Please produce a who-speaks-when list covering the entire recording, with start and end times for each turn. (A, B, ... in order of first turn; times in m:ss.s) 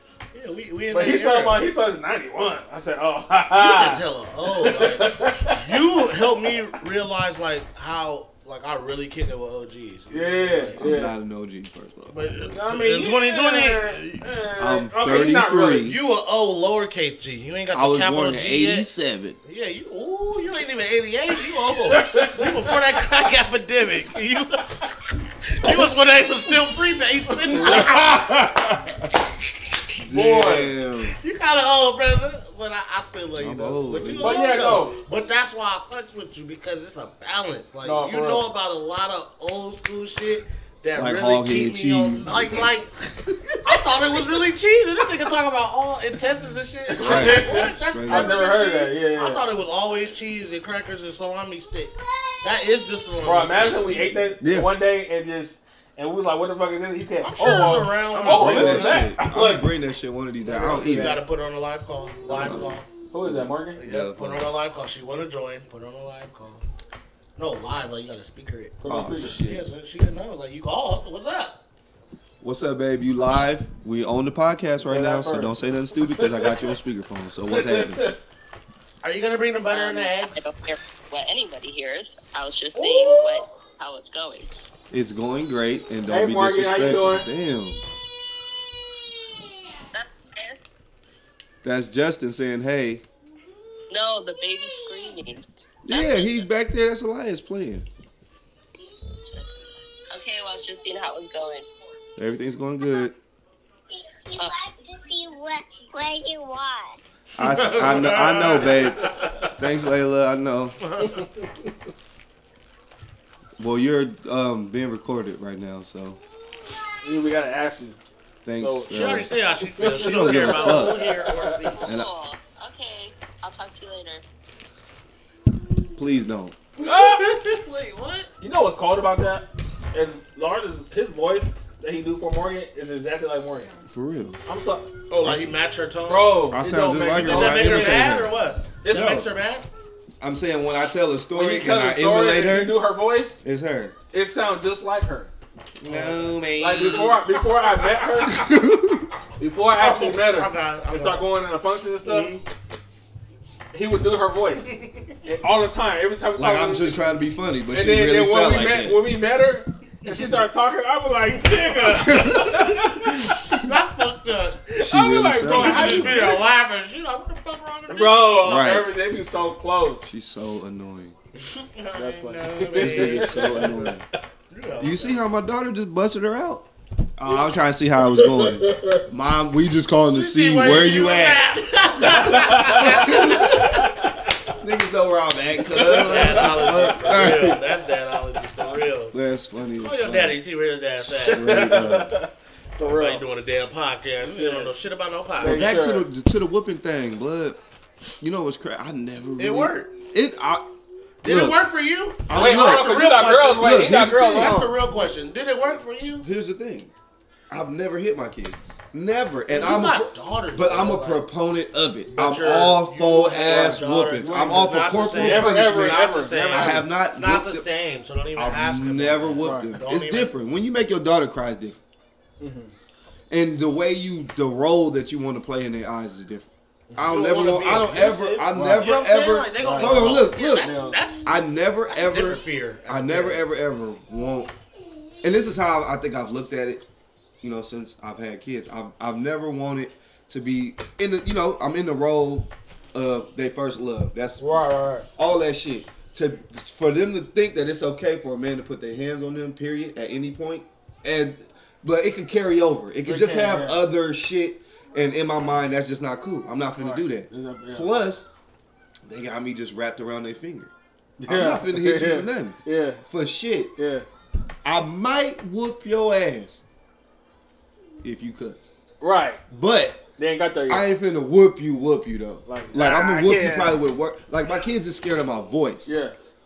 0:00.3-0:01.7 A
0:00.9-0:06.6 B
0:03.5-0:10.9 A
0:10.1-0:11.1 B
0:10.8-0:12.4 C
0:12.1-0:14.3 A
0:12.5-0:15.9 B
0:14.6-0:16.0 C
0:15.8-0:18.9 A
0:17.7-0:19.4 C
0:19.4-0:24.8 A
0:21.9-0:22.7 B
0:25.4-0:28.3 A
0:27.5-0:29.2 C
0:30.0-0:31.1 C
0:30.1-0:30.7 B
0:30.1-0:30.6 A
0:31.2-0:42.9 A
0:33.4-0:34.4 C
0:34.2-0:35.0 B
0:37.8-0:38.4 B
0:40.9-0:42.7 C
0:43.2-0:43.8 C
0:43.6-0:54.1 A
0:46.9-0:49.4 B
0:47.0-0:48.4 C
0:53.2-0:59.7 B
0:54.4-0:54.7 C
0:57.2-0:59.1 A
0:58.1-1:01.2 C
1:00.4-1:02.9 A
1:02.3-1:02.7 C
1:03.1-1:03.8 B
1:03.2-1:04.5 C
1:03.8-1:06.6 A
1:07.4-1:08.8 A
1:08.8-1:09.6 B
1:08.8-1:09.4 C
1:09.4-1:11.6 A
1:12.4-1:18.1 C
1:14.8-1:16.7 B
1:17.5-1:18.2 B
1:19.0-1:20.5 A
1:19.7-1:24.6 D
1:22.8-1:23.4 A
1:24.9-1:27.8 C
1:26.1-1:27.2 B
1:29.9-1:30.6 D
1:31.6-1:33.0 C
1:33.9-1:36.4 D
1:35.8-1:37.9 C
1:39.2-1:41.7 D
1:42.2-1:43.1 C
1:43.9-1:47.0 E
1:47.4-1:50.8 C
1:47.4-1:49.5 A
1:50.8-1:51.3 A
1:53.6-1:56.2 C
1:57.0-1:58.0 B
1:58.4-1:59.3 C
1:58.6-1:59.2 B
1:58.9-2:01.8 A
1:59.8-2:01.6 B
1:59.8-2:01.1 C
2:01.5-2:04.2 D
2:01.8-2:02.1 C
2:06.0-2:06.6 C
2:06.8-2:08.3 A
2:06.8-2:07.3 B
2:08.4-2:13.7 B
2:13.9-2:14.4 C
2:14.5-2:14.9 B
2:15.1-2:16.5 A
2:15.2-2:15.5 C
2:16.1-2:18.2 B
2:16.5-2:18.3 C
2:17.1-2:19.7 A
2:18.8-2:19.2 B
2:18.8-2:19.3 C
2:20.2-2:22.8 C
2:21.3-2:23.4 B
2:23.4-2:23.9 C
2:24.1-2:25.3 B
2:25.8-2:27.2 C
2:25.9-2:27.1 A
2:26.6-2:28.5 B
2:28.2-2:29.1 C
2:29.4-2:32.4 B
2:29.7-2:31.2 A
2:32.0-2:32.4 A
2:33.7-2:37.1 B
2:34.7-2:35.1 A
2:36.4-2:39.0 C
2:37.7-2:43.5 B
2:40.0-2:40.3 A
2:41.6-2:42.1 A
2:41.9-2:43.6 C
2:43.5-2:44.7 A
2:44.7-2:46.4 B
2:44.8-2:46.4 C
2:45.5-2:48.4 A
2:47.9-2:50.1 B
2:48.4-2:48.9 C
2:50.0-2:51.1 C
2:51.4-2:53.8 A
2:52.0-2:54.0 B
2:52.8-2:54.0 C
2:54.5-2:55.2 A
2:54.8-3:01.5 C
2:58.1-2:59.0 B
3:00.1-3:03.8 A
3:02.0-3:03.8 C
3:02.1-3:04.2 B
3:04.5-3:07.6 C
3:05.7-3:07.5 B
3:05.8-3:09.2 A
3:09.1-3:10.4 C
3:09.8-3:11.8 A
3:11.0-3:12.2 C
3:11.2-3:13.2 B
3:12.8-3:15.8 A
3:14.3-3:14.7 B
3:15.4-3:16.1 B
3:15.4-3:17.6 C
3:18.2-3:20.6 C
3:19.4-3:19.9 A
3:21.2-3:26.2 A
3:21.2-3:21.6 C
3:22.2-3:24.6 C
3:22.3-3:24.7 B
3:26.2-3:26.9 C
3:27.5-3:37.6 C
3:29.5-3:31.3 A
3:32.1-3:40.3 A
3:34.2-3:36.9 B
3:38.4-3:41.8 C
3:39.4-3:39.8 B
3:42.4-3:42.7 B
3:43.3-3:54.5 C
3:47.0-3:53.4 A
3:48.5-3:48.9 B
3:49.6-3:51.0 B
3:55.2-3:56.8 C
3:57.4-4:04.6 C
4:04.4-4:05.1 B
4:05.2-4:18.3 C
4:13.0-4:13.8 B
4:16.8-4:17.9 B
4:19.0-4:20.7 C
4:21.2-4:23.0 B
4:21.3-4:23.7 C
4:23.8-4:24.0 B
4:24.6-4:26.6 C
4:28.0-4:28.6 C
4:29.0-4:29.4 B
4:29.5-4:30.0 C
4:30.2-4:30.8 B
4:30.7-4:35.9 C
4:32.4-4:33.8 B
4:35.8-4:36.2 B